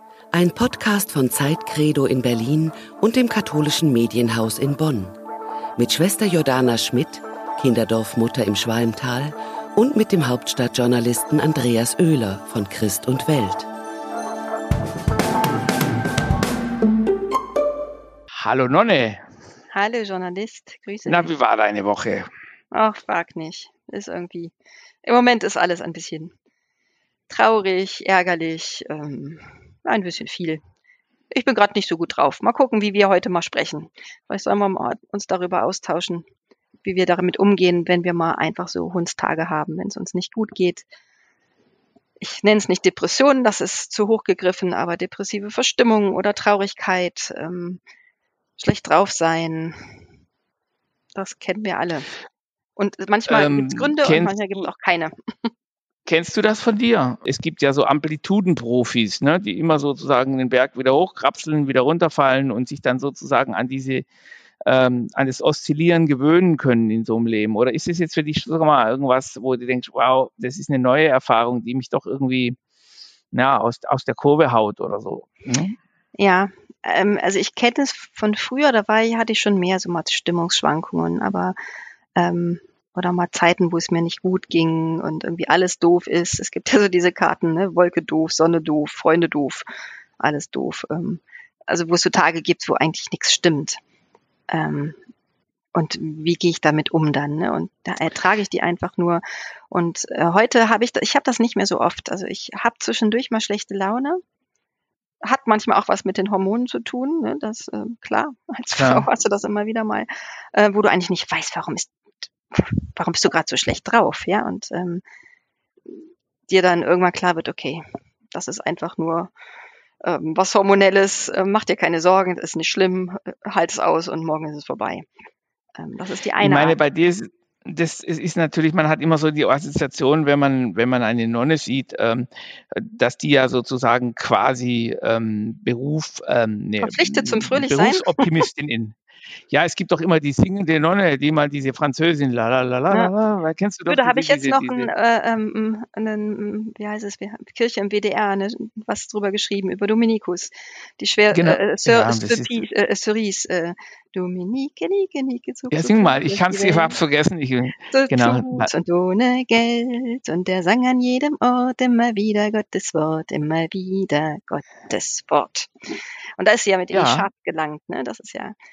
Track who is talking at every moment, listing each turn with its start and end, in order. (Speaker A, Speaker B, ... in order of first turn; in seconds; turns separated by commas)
Speaker A: 0.3-5.2, Speaker A: 5.8-13.7, Speaker B: 18.3-19.2, Speaker C: 19.7-21.3, Speaker B: 21.1-22.3, Speaker C: 22.7-26.3, Speaker C: 27.3-30.6, Speaker C: 31.3-36.2, Speaker C: 36.8-40.9, Speaker C: 42.2-47.8, Speaker C: 48.6-49.9, Speaker C: 51.2-52.1, Speaker C: 52.8-55.5, Speaker B: 53.3-54.7, Speaker B: 56.1-64.1, Speaker B: 64.6-72.6, Speaker B: 73.3-75.8, Speaker C: 76.2-81.5, Speaker C: 82.2-89.7, Speaker C: 90.2-93.8, Speaker C: 94.5-95.0, Speaker C: 95.8-104.2, Speaker C: 105.2-111.9, Speaker B: 108.8-109.1, Speaker C: 112.5-115.0, Speaker C: 115.9-119.3, Speaker C: 120.0-125.1, Speaker C: 125.8-126.8, Speaker B: 126.4-139.0, Speaker C: 136.8-138.4, Speaker B: 139.5-144.9, Speaker C: 143.9-157.0, Speaker B: 151.3-152.6, Speaker B: 155.7-158.7, Speaker C: 157.9-165.7, Speaker C: 166.4-168.6, Speaker B: 166.9-167.3